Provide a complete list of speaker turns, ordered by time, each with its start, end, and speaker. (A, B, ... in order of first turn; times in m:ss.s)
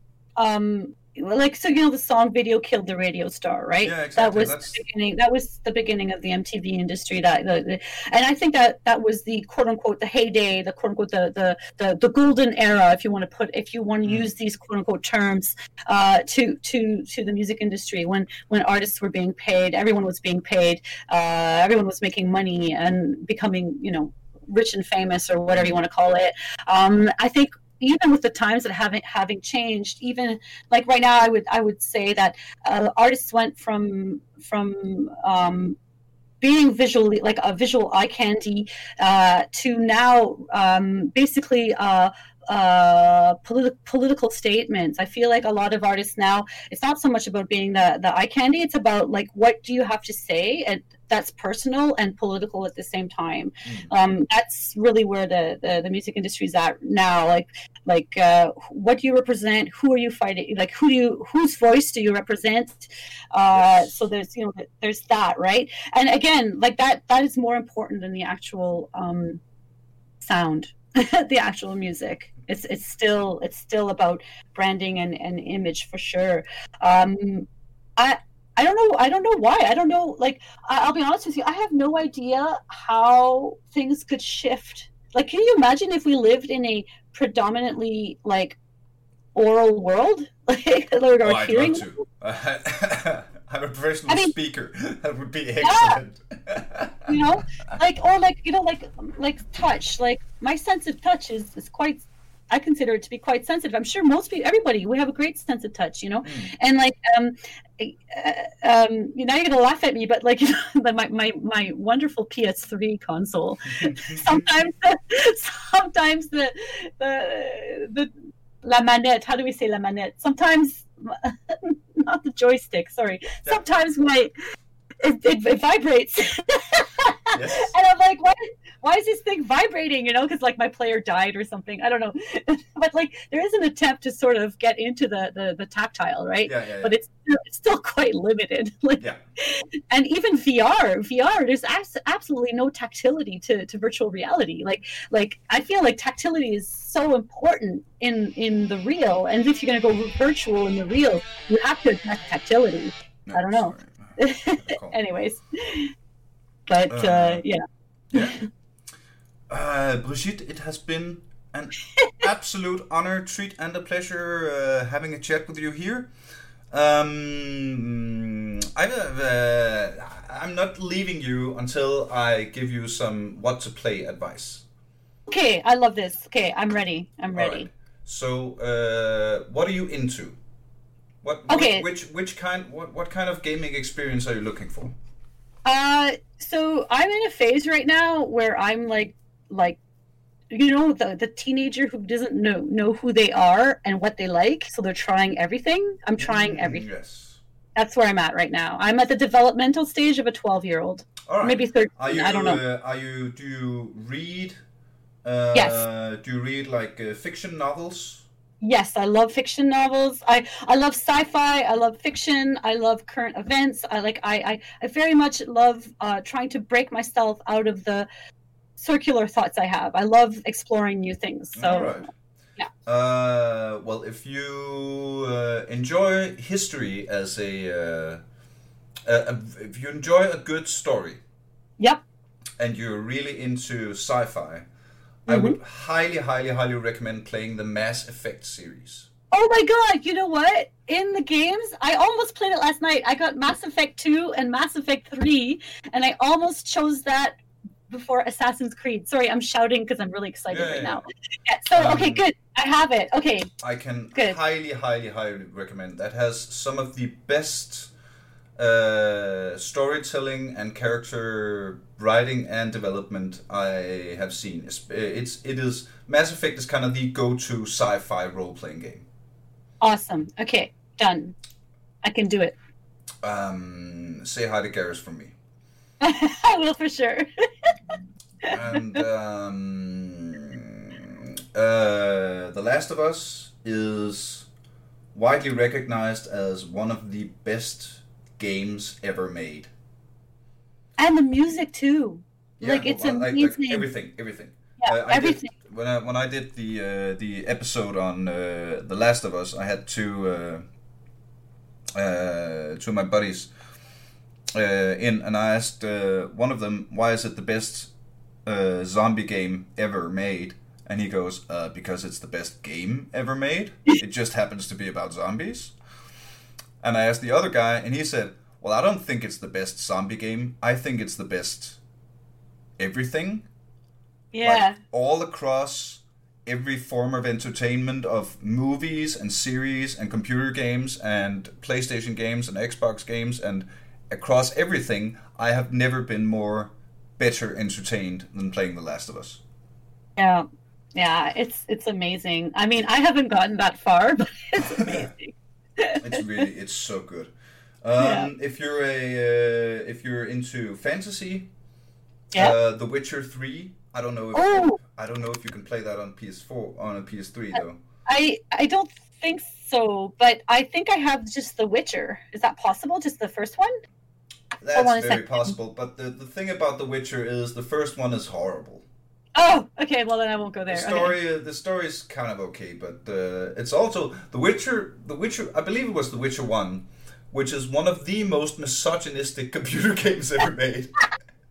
0:00.4-0:35.8 A
0:03.8-0:04.8 B
0:36.4-1:09.4 A
0:53.6-0:53.9 B
1:03.5-1:03.9 B
1:10.2-1:28.6 A
1:29.4-1:32.0 A
1:31.2-1:37.1 B
1:34.1-1:34.4 A
1:35.6-1:36.0 A
1:37.1-1:58.1 A
1:46.2-1:46.5 B
1:53.8-1:54.5 B
1:58.6-2:04.3 A
2:05.0-2:35.9 A
2:07.3-2:07.7 B
2:16.5-2:17.0 B
2:33.3-2:35.0 B
2:36.7-2:37.6 A
2:36.9-2:37.4 B
2:38.1-2:38.4 B
2:38.1-2:38.4 A
2:39.5-2:46.1 B
2:46.7-2:54.6 B
2:55.3-2:57.7 A
2:57.3-3:00.4 B
3:01.2-3:04.9 B
3:01.5-3:01.9 A
3:05.7-3:09.8 A
3:10.5-3:16.9 A
3:16.2-3:17.4 B
3:17.8-3:22.6 A
3:21.3-3:24.6 B
3:25.2-3:28.3 B
3:25.5-3:25.8 A
3:28.6-3:38.1 A
3:38.8-3:42.0 A
3:41.6-3:42.1 B
3:42.9-3:48.2 B
3:49.0-3:51.2 B
3:52.6-3:54.7 B
3:55.3-3:55.6 A
3:55.3-3:59.1 B
3:59.3-4:07.4 A
4:07.9-4:13.5 A
4:10.5-4:11.0 B
4:11.8-4:12.2 B
4:13.6-4:17.9 B
4:18.6-4:29.0 B
4:29.8-4:31.4 A
4:32.0-4:32.6 A
4:33.2-4:35.3 B
4:36.0-4:37.7 A
4:38.4-4:44.5 B
4:38.4-4:39.0 A
4:45.1-4:49.7 B
4:51.0-4:53.9 A
4:52.6-5:00.6 B
4:54.8-4:55.5 A
5:02.0-5:03.5 B
5:04.5-5:07.9 B
5:08.4-5:15.8 B
5:16.8-5:21.8 B
5:22.8-5:23.5 B
5:24.3-5:24.8 A
5:24.4-5:39.4 B
5:40.2-5:40.4 A
5:41.0-5:46.2 A
5:44.6-5:45.1 B
5:46.0-5:47.3 B
5:47.8-5:51.5 B
5:48.0-5:48.3 A
5:52.4-5:57.8 B
5:54.4-5:54.8 A
5:58.1-6:03.7 A
6:04.6-6:08.8 B
6:04.8-6:05.5 A
6:09.4-6:11.2 A
6:10.7-6:20.9 B